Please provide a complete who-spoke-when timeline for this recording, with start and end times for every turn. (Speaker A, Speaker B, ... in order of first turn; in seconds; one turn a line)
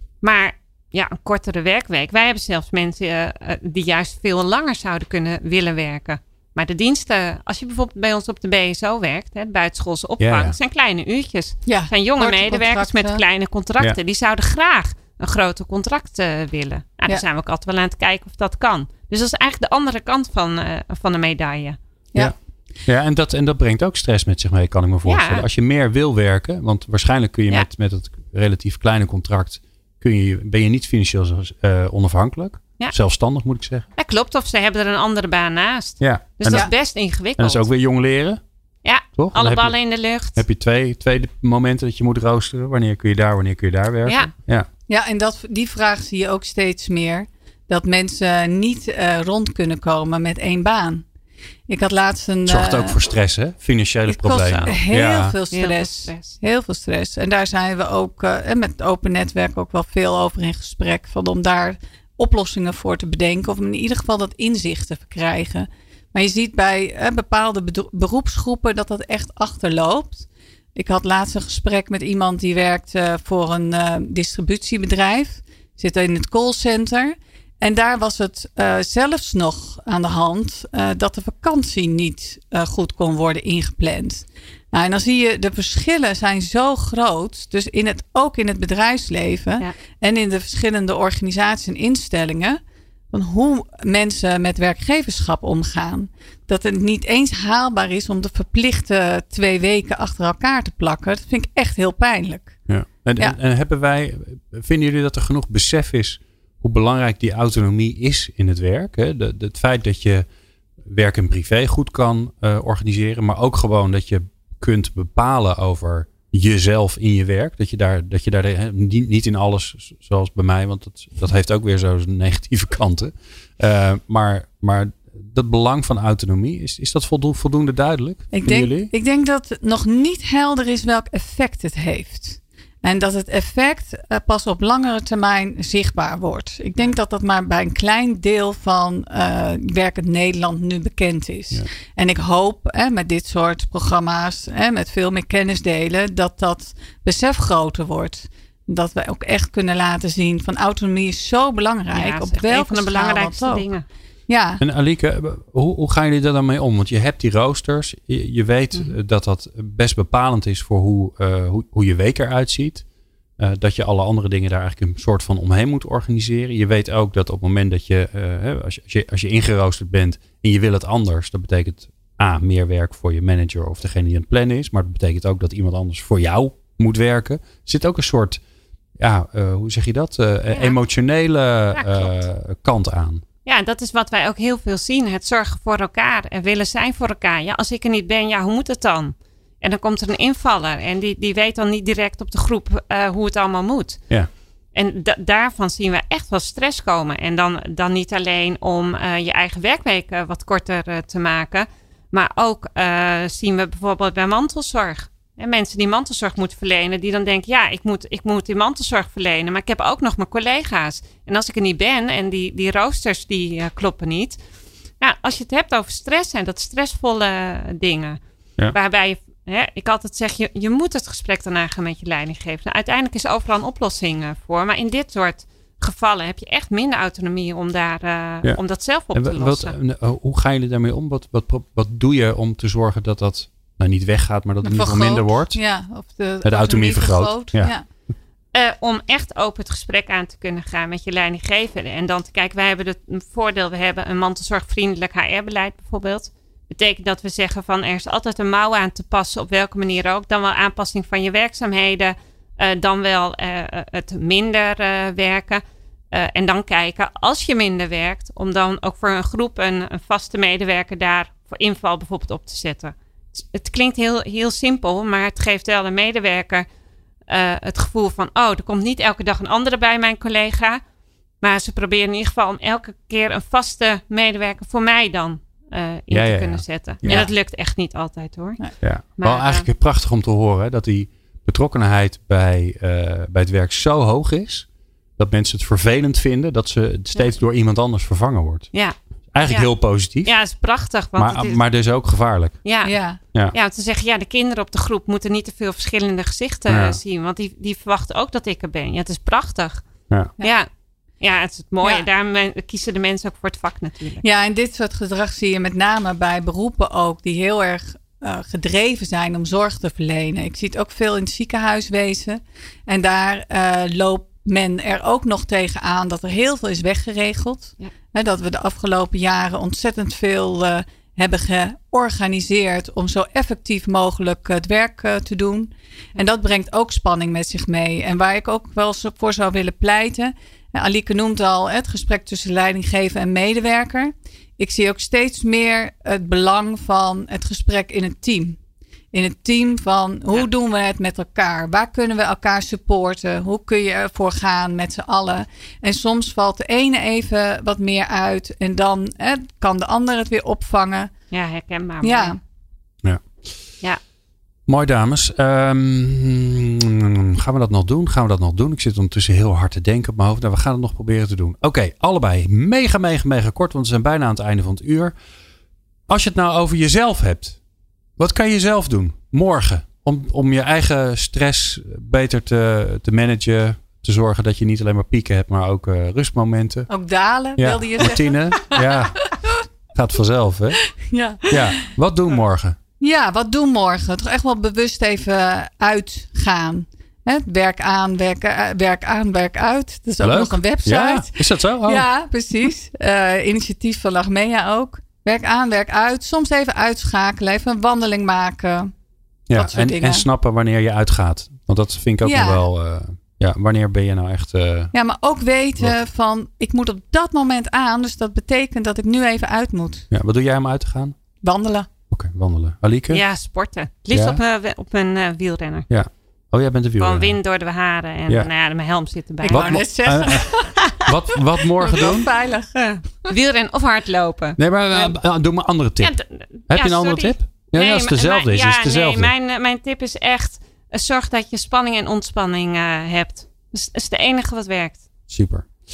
Speaker A: 0.2-21.8
Speaker B: 10.2-10.5
Speaker C: 11.7-13.2
Speaker B: 22.9-33.9
Speaker A: 25.0-25.4
Speaker A: 34.0-37.7
Speaker B: 36.0-36.7
Speaker B: 37.4-38.4
Speaker A: 38.8-40.4
Speaker B: 39.2-39.8
Speaker B: 40.3-44.7
Speaker A: 44.0-44.3
Speaker C: 44.9-51.0
Speaker C: 51.7-53.0
Speaker B: 52.5-55.3
Speaker C: 54.1-92.6
Speaker A: 54.5-54.8
Speaker A: 55.5-56.4
Speaker C: 93.1-102.6
Speaker B: 102.7-110.2
Speaker B: 110.8-128.9
Speaker C: 128.3-153.7
Speaker A: 151.9-153.8
Speaker C: 154.3-154.6
Speaker B: 154.6-162.8
Speaker B: 163.4-178.4
Speaker B: 179.0-183.2
Speaker A: 180.5-180.8
Speaker A: 181.7-182.2
Speaker A: 183.4-194.0
Speaker A: 194.7-214.4
Speaker A: 215.0-218.2
Speaker A: 218.7-229.7
Speaker B: 229.1-235.6
Speaker C: 234.6-237.8
Speaker B: 236.4-237.7
Speaker A: 238.5-266.6
Speaker A: 267.3-270.8
Speaker A: 271.4-278.6
Speaker B: 276.1-277.3
Speaker B: 278.8-284.7
Speaker A: 279.2-279.6
Speaker B: 285.2-288.7
Speaker A: 288.7-291.6
Speaker B: 289.3-290.3
Speaker B: 291.1-292.6
Speaker A: 292.6-292.9
Speaker C: 292.8-293.2
Speaker A: 293.5-299.8
Speaker B: 296.7-297.0
Speaker A: 300.4-300.7
Speaker A: 301.2-304.2
Speaker C: 304.2-338.6
Speaker C: 339.1-351.1
Speaker A: 351.3-352.3
Speaker C: 352.0-352.4
Speaker B: 354.7-365.1
Speaker B: 366.1-367.6
Speaker B: 368.2-376.9
Speaker C: 376.9-379.5
Speaker B: 377.6-379.3
Speaker B: 379.9-380.8
Speaker C: 381.1-381.6
Speaker B: 381.5-382.8
Speaker C: 383.0-398.9
Speaker B: 390.2-392.1
Speaker B: 399.5-404.9
Speaker C: 399.6-400.3
Speaker C: 402.2-402.6
Speaker C: 404.9-410.1
Speaker B: 410.1-411.1
Speaker C: 411.4-411.9
Speaker B: 412.1-413.2
Speaker A: 413.1-415.9
Speaker B: 414.1-414.4
Speaker B: 415.9-417.4
Speaker A: 417.0-419.8
Speaker C: 419.4-420.7
Speaker B: 419.5-422.3
Speaker C: 421.8-423.3
Speaker A: 422.7-425.1
Speaker B: 424.6-426.1
Speaker A: 426.0-435.0
Speaker B: 426.7-429.3
Speaker B: 435.3-435.7